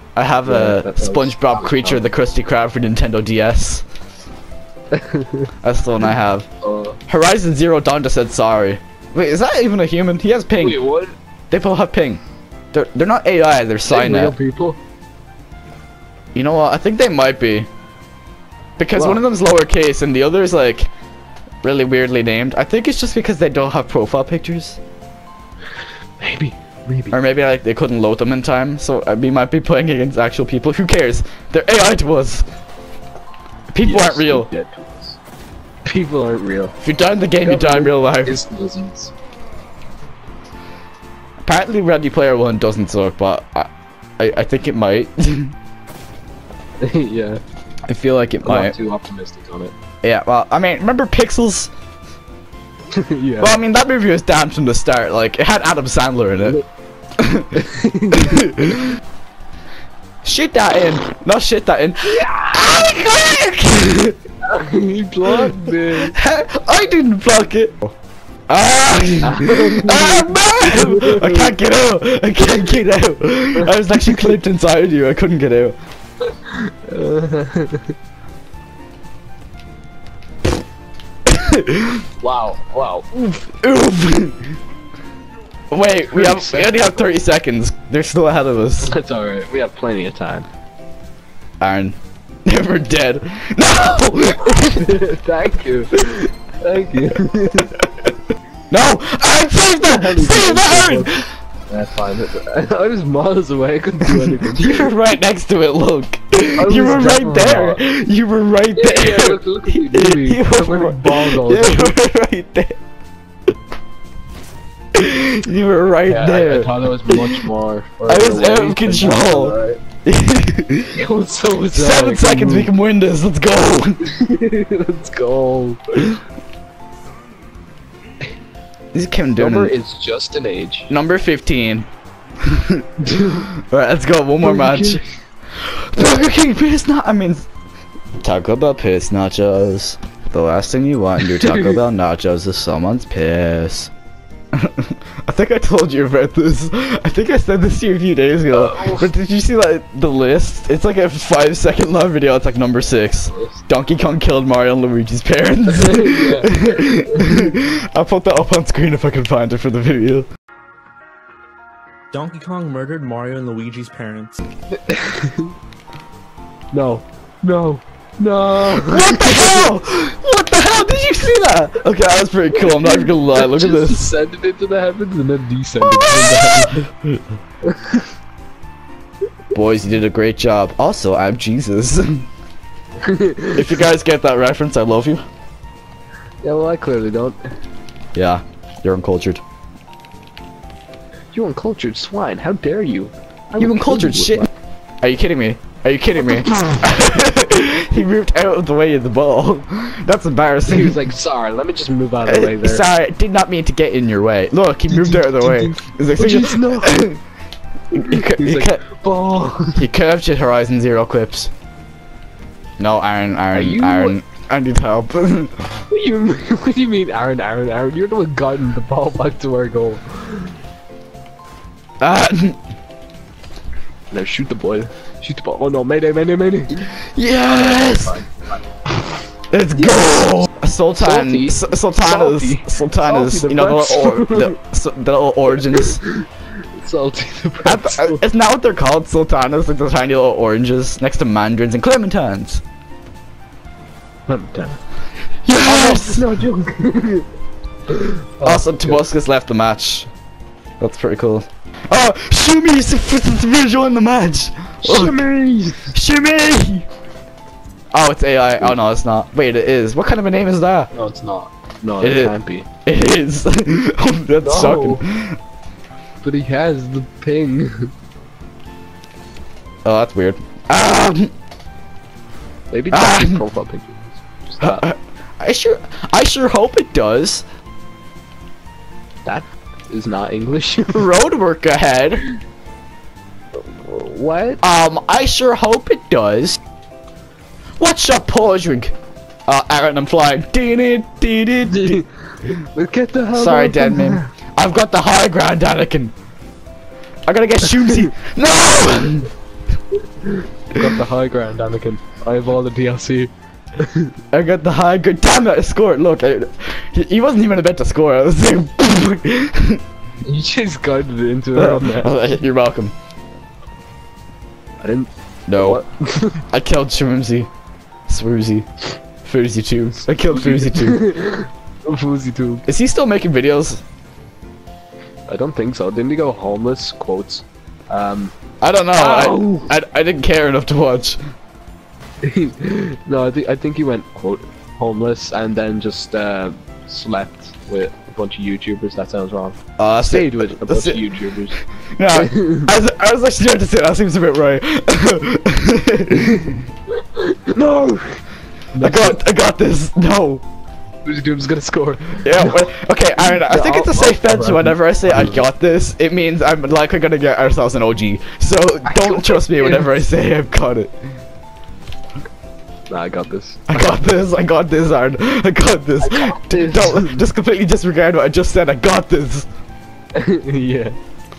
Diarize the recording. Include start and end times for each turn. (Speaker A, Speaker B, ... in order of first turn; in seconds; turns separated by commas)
Speaker A: 0.2-3.9, Speaker B: 0.5-2.1, Speaker B: 4.9-5.5, Speaker A: 5.6-6.5, Speaker B: 6.6-7.0, Speaker A: 7.1-10.8, Speaker B: 10.6-11.2, Speaker A: 11.5-12.2, Speaker A: 12.7-14.3, Speaker B: 13.9-14.8, Speaker A: 16.4-17.7, Speaker A: 18.8-20.9, Speaker B: 19.0-19.2, Speaker A: 21.6-24.8, Speaker B: 26.2-27.2, Speaker A: 27.1-32.5, Speaker A: 33.7-34.5, Speaker B: 33.8-35.2, Speaker B: 35.9-36.8, Speaker A: 36.8-38.4, Speaker B: 37.4-39.1, Speaker A: 41.4-45.6, Speaker B: 46.8-47.4, Speaker A: 47.9-48.8, Speaker B: 48.4-49.7, Speaker A: 50.0-51.7, Speaker B: 52.9-53.6, Speaker A: 53.4-56.6, Speaker A: 57.2-57.6, Speaker B: 57.5-58.5, Speaker A: 58.1-59.0, Speaker A: 60.2-64.2, Speaker B: 64.4-66.2, Speaker A: 65.3-67.9, Speaker A: 68.5-75.8, Speaker B: 69.2-71.5, Speaker B: 76.3-77.9, Speaker A: 81.3-82.0, Speaker B: 82.2-83.1, Speaker A: 83.1-84.5, Speaker A: 85.7-89.0, Speaker B: 86.1-86.8, Speaker B: 88.8-90.5, Speaker A: 91.6-95.0, Speaker B: 94.7-97.8, Speaker A: 98.7-101.3, Speaker B: 99.8-104.9, Speaker A: 104.4-112.8, Speaker B: 106.6-107.8, Speaker B: 108.8-112.0, Speaker A: 114.9-117.5, Speaker B: 116.1-119.8, Speaker A: 118.1-121.0, Speaker B: 120.9-122.7, Speaker A: 121.7-124.0, Speaker B: 124.1-126.2, Speaker A: 128.9-129.7, Speaker B: 129.4-130.9, Speaker A: 130.9-131.9, Speaker A: 132.4-135.0, Speaker B: 133.0-133.5, Speaker B: 134.4-135.1, Speaker A: 135.6-137.5, Speaker A: 138.2-143.9, Speaker B: 141.2-141.8, Speaker A: 144.5-160.3, Speaker B: 148.5-149.1, Speaker B: 155.8-157.5, Speaker C: 162.1-164.4, Speaker B: 164.7-165.5, Speaker B: 166.7-169.5, Speaker A: 168.8-174.2, Speaker B: 172.6-176.9, Speaker A: 175.8-177.2, Speaker B: 177.6-178.1, Speaker A: 179.5-182.3, Speaker B: 183.0-183.7, Speaker A: 183.5-185.2, Speaker B: 186.4-187.5, Speaker A: 188.2-189.4, Speaker B: 191.3-194.5, Speaker A: 193.6-194.5, Speaker A: 195.0-201.0, Speaker B: 200.7-202.8, Speaker A: 202.2-207.2, Speaker B: 204.9-207.1, Speaker A: 207.9-208.8, Speaker B: 207.9-209.8, Speaker A: 209.8-211.5, Speaker A: 212.8-215.7, Speaker B: 213.5-214.2, Speaker B: 215.9-220.6, Speaker A: 222.0-222.6, Speaker B: 224.1-229.1, Speaker A: 227.2-228.2, Speaker A: 229.5-236.0, Speaker B: 229.7-230.4, Speaker B: 231.0-234.6, Speaker B: 235.6-238.2, Speaker A: 237.7-242.6, Speaker B: 244.3-244.8, Speaker A: 245.4-246.3, Speaker B: 245.6-247.3, Speaker B: 247.9-249.1, Speaker A: 248.4-250.1, Speaker A: 250.8-255.2, Speaker B: 254.8-255.9, Speaker A: 255.9-256.9, Speaker A: 257.9-260.9, Speaker B: 260.9-262.7, Speaker A: 262.0-265.4, Speaker B: 264.4-265.0, Speaker B: 266.2-267.9, Speaker A: 269.9-271.3, Speaker B: 272.7-274.8, Speaker A: 272.9-273.4, Speaker A: 274.6-277.4, Speaker B: 279.2-281.1, Speaker A: 280.9-282.3, Speaker B: 283.6-284.6, Speaker A: 284.6-286.6, Speaker A: 287.8-288.9, Speaker A: 289.5-292.0, Speaker B: 291.7-294.3, Speaker A: 293.3-296.1, Speaker A: 297.3-299.3, Speaker B: 300.2-304.1, Speaker A: 304.3-309.8, Speaker B: 310.2-312.2, Speaker A: 311.6-312.9, Speaker B: 314.8-316.4, Speaker A: 315.5-315.8, Speaker A: 316.5-317.5, Speaker A: 318.1-318.7, Speaker A: 319.2-321.1, Speaker B: 320.3-322.7, Speaker A: 322.7-323.8, Speaker B: 325.3-328.4, Speaker A: 328.6-331.2, Speaker B: 329.0-329.7, Speaker B: 332.2-341.6, Speaker A: 339.8-341.1, Speaker A: 341.9-346.6, Speaker B: 342.1-342.7, Speaker B: 347.0-348.2, Speaker B: 348.7-349.2, Speaker A: 348.8-350.4, Speaker B: 351.1-352.6, Speaker A: 352.2-361.0, Speaker B: 353.2-355.4, Speaker B: 358.9-359.9, Speaker B: 362.9-364.0, Speaker A: 363.7-369.5, Speaker B: 366.0-367.2, Speaker B: 370.1-371.0